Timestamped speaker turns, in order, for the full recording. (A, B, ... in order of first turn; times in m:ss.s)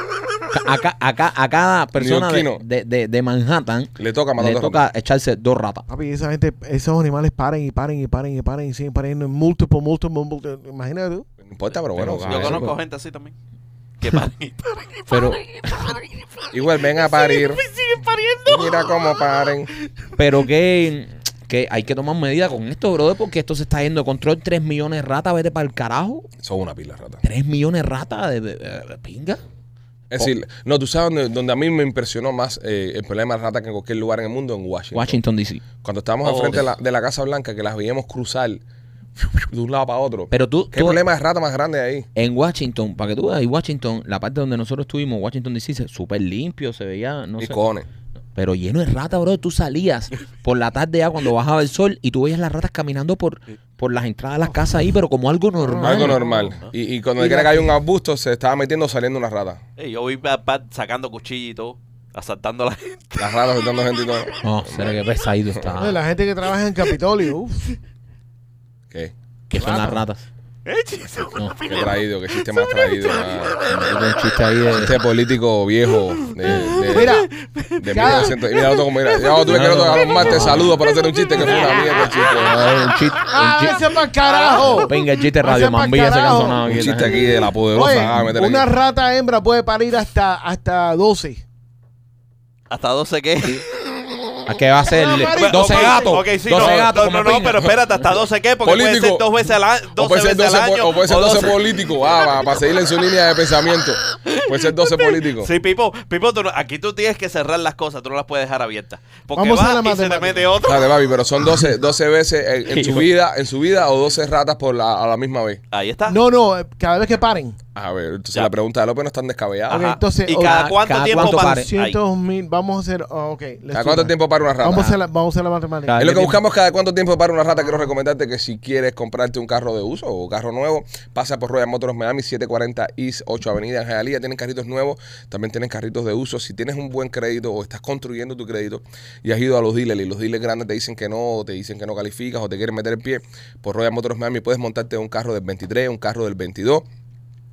0:00.5-0:05.8 A
0:02.0-0:02.6 B
0:04.0-0:04.8 B
0:05.9-0:11.3 C
0:11.4-0:12.6 B
0:12.0-0:12.8 A
0:12.2-0:13.3 D
0:14.0-0:19.4 D
0:15.1-0:15.8 A
0:16.5-0:17.6 B
0:18.5-0:19.7 B
0:20.2-0:26.2 A
0:26.4-0:27.2 B
0:27.2-0:29.4 A
0:30.1-0:35.2 B
0:34.9-0:35.6 A
0:35.8-0:38.6 B
0:36.2-0:36.6 D
0:39.2-0:42.1 B
0:40.3-0:41.0 A
0:42.1-0:47.6 A
0:47.4-0:47.9 B
0:48.3-0:56.2 A
0:55.6-0:56.6 C
0:55.8-0:59.6 B
0:57.2-0:57.7 C
0:59.8-1:03.4 D
1:03.2-1:05.0 B
1:04.4-1:06.0 A
1:05.7-1:07.6 C
1:09.5-1:10.2 A
1:09.5-1:10.0 C
1:10.6-1:14.1 D
1:11.6-1:13.6 B
1:13.6-1:15.0 A
1:14.7-1:17.2 B
1:16.4-1:19.3 D
1:16.9-1:17.3 C
1:17.8-1:22.7 B
1:17.9-1:18.4 C
1:19.5-1:20.8 A
1:21.4-1:22.3 C
1:21.6-1:23.9 A
1:23.3-1:26.6 C
1:24.2-1:24.8 D
1:24.6-1:27.3 A
1:26.6-1:28.7 B
1:27.7-1:31.4 C
1:32.7-1:33.7 D
1:34.4-1:37.7 A
1:34.9-1:36.3 C
1:35.3-1:41.6 D
1:36.6-1:36.8 B
1:38.6-1:39.3 B
1:40.0-1:45.5 B
1:45.0-1:51.0 D
1:49.3-1:50.5 C
1:50.6-1:55.6 B
1:55.7-1:56.2 D
1:56.1-1:57.6 C
1:57.7-1:59.9 B
1:59.7-2:02.0 D
1:59.7-2:06.0 C
2:00.3-2:01.7 A
2:03.7-2:04.9 B
2:05.8-2:06.4 A
2:06.0-2:26.8 B